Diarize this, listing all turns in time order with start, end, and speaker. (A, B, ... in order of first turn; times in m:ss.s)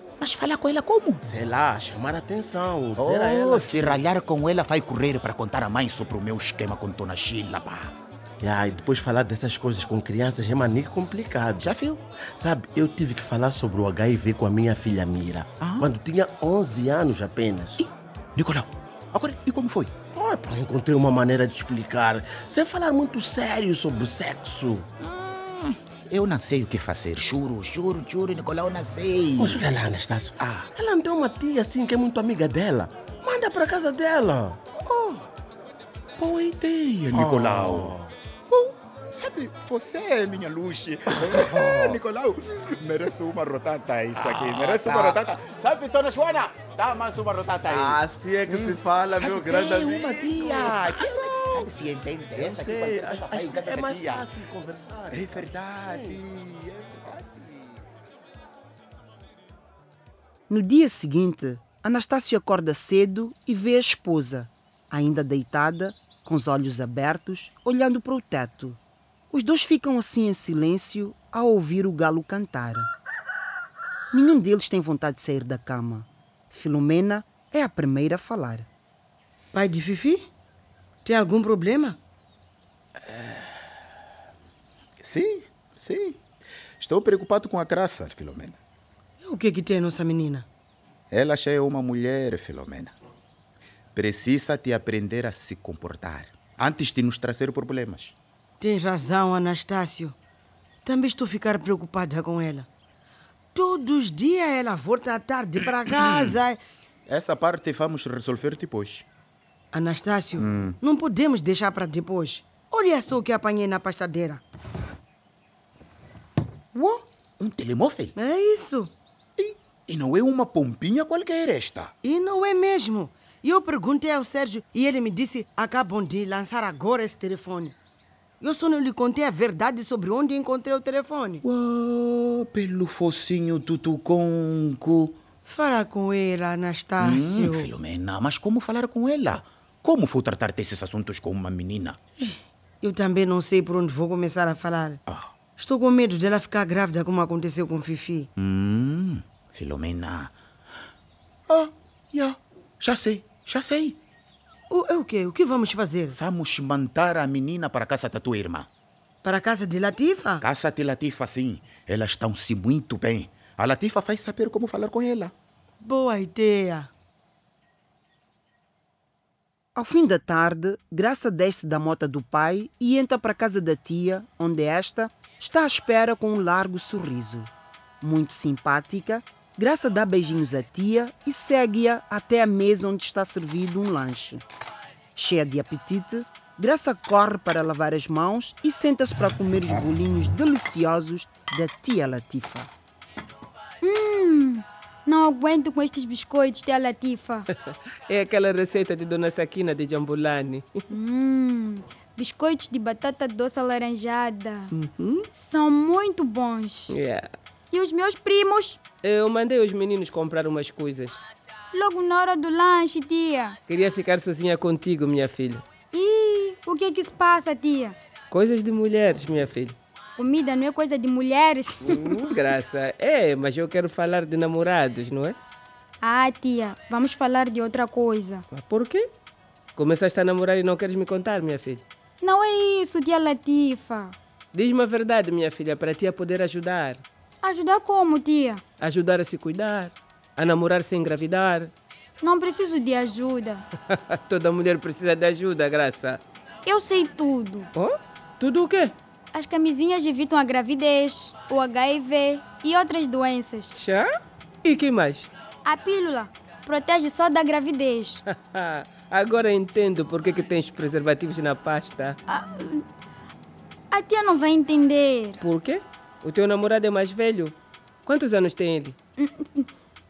0:00.2-0:01.2 A
0:01.2-0:04.0 B
0:03.0-0:07.9 A
0:08.4-0:11.7 B
0:11.6-0:12.0 A
0:12.4-0:17.8 B
0:15.6-0:15.9 A
0:17.8-0:19.9 A
0:20.1-0:24.9 B
0:25.0-0:29.6 A
0:29.4-0:34.6 B
0:30.4-0:30.7 A
0:34.8-0:35.3 A
0:36.2-0:38.0 A
0:37.1-0:38.1 B
0:38.5-0:54.3 A
0:41.2-0:42.0 B
0:44.2-0:45.2 B
0:47.6-0:51.7 B
0:52.3-0:56.2 B
0:55.1-0:57.8 A
1:00.5-1:08.8 C
1:09.3-1:12.9 C
1:14.1-1:18.7 C
1:19.5-1:20.3 D
1:21.0-1:22.0 D
1:25.0-1:26.2 A
1:26.8-1:28.6 A
1:29.2-1:30.5 D
1:31.1-1:32.9 A
1:34.0-1:38.2 A
1:38.6-1:40.2 D
1:40.8-1:42.7 D
1:43.5-1:46.6 D
1:45.9-1:46.3 A
1:47.1-1:49.1 A
1:49.7-1:54.4 D
1:50.4-1:50.8 A
1:56.7-1:58.2 A
1:58.2-1:58.9 D
1:59.4-2:01.9 A
2:02.0-2:07.8 D
2:08.4-2:11.4 D
2:11.4-2:15.2 A
2:15.4-2:17.7 D
2:17.0-2:22.0 A
2:22.2-2:25.0 D
2:25.1-2:25.3 A
2:25.6-2:28.3 D
2:28.4-2:30.3 A
2:31.5-2:34.0 A
2:34.7-2:36.2 D
2:36.1-2:38.7 A
2:39.2-2:40.4 D
2:40.4-2:45.3 A
2:45.8-2:46.9 D
2:49.8-2:57.5 C
2:58.0-3:04.4 C
3:05.2-3:12.7 C
3:13.8-3:17.5 E
3:18.1-3:20.7 F
3:20.9-3:24.7 E
3:24.7-3:25.3 F
3:25.4-3:27.0 E
3:26.9-3:27.3 F
3:27.7-3:28.8 E
3:29.0-3:31.2 F
3:31.7-3:33.6 E
3:33.7-3:35.6 F
3:35.9-3:38.0 E
3:38.3-3:39.8 F
3:40.2-3:42.1 E
3:41.9-3:45.4 F
3:46.0-3:48.5 E
3:48.5-3:49.1 F
3:49.8-3:51.8 F
3:52.2-3:54.2 E
3:54.5-3:57.0 F
3:57.4-3:58.6 E
3:58.8-4:01.7 F
4:02.2-4:03.7 E
4:03.9-4:06.2 F
4:06.6-4:07.7 E
4:07.8-4:09.0 F
4:09.3-4:13.8 E
4:13.8-4:15.3 F
4:15.6-4:18.2 E
4:18.3-4:22.2 F
4:22.3-4:22.8 E
4:23.9-4:25.4 E
4:25.4-4:29.0 F
4:29.2-4:29.7 E